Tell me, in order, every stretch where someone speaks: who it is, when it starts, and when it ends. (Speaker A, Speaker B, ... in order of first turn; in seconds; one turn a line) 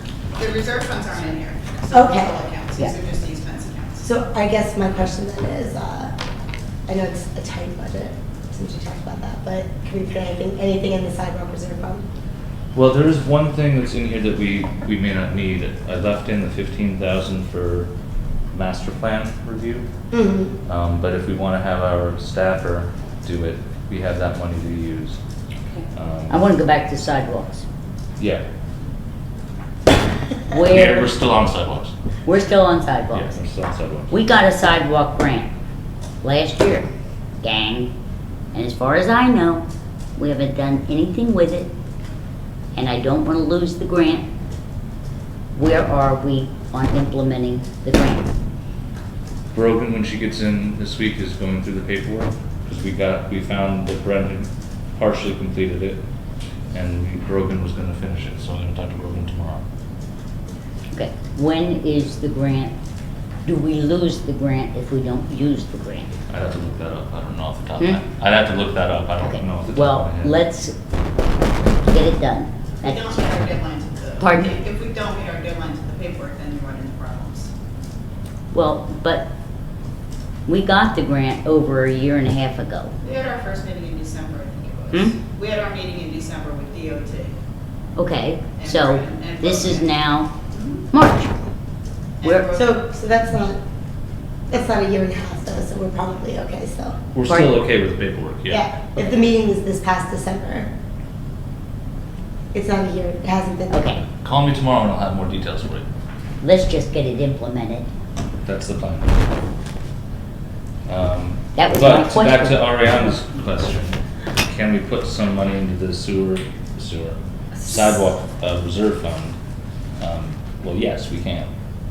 Speaker A: 0.4-4.0
Speaker B: 1.9-2.4
Speaker B: 4.0-6.1
Speaker B: 6.9-12.0
Speaker C: 12.7-17.9
Speaker C: 18.5-19.9
Speaker B: 20.1-20.6
Speaker C: 20.6-25.2
Speaker C: 25.9-26.4
Speaker D: 26.3-27.6
Speaker D: 30.5-31.1
Speaker C: 30.5-31.9
Speaker D: 32.2-33.3
Speaker C: 33.1-34.1
Speaker D: 34.1-35.5
Speaker D: 36.2-36.9
Speaker D: 37.4-37.9
Speaker D: 38.5-39.6
Speaker D: 40.1-41.7
Speaker D: 42.7-44.3
Speaker D: 45.5-48.3
Speaker C: 49.5-56.0
Speaker C: 56.7-59.6
Speaker D: 60.9-62.7
Speaker D: 63.4-66.1
Speaker C: 66.3-70.4
Speaker D: 69.2-70.7
Speaker D: 71.8-73.5
Speaker A: 72.8-77.5
Speaker D: 74.2-74.6
Speaker D: 78.5-79.3
Speaker D: 80.5-82.9
Speaker A: 83.0-87.3
Speaker D: 88.0-90.3
Speaker A: 88.6-89.9
Speaker A: 90.5-90.8
Speaker D: 90.9-91.3
Speaker A: 92.2-92.8
Speaker D: 92.2-92.5
Speaker B: 92.5-93.6
Speaker B: 94.5-97.0
Speaker C: 97.1-98.8
Speaker D: 97.3-97.6
Speaker B: 98.5-100.7
Speaker B: 102.5-103.9
Speaker D: 103.7-104.0
Speaker C: 104.2-105.8
Speaker D: 106.4-107.9
Speaker C: 108.5-109.1
Speaker C: 110.9-119.4
Speaker D: 111.5-113.0
Speaker C: 120.0-121.5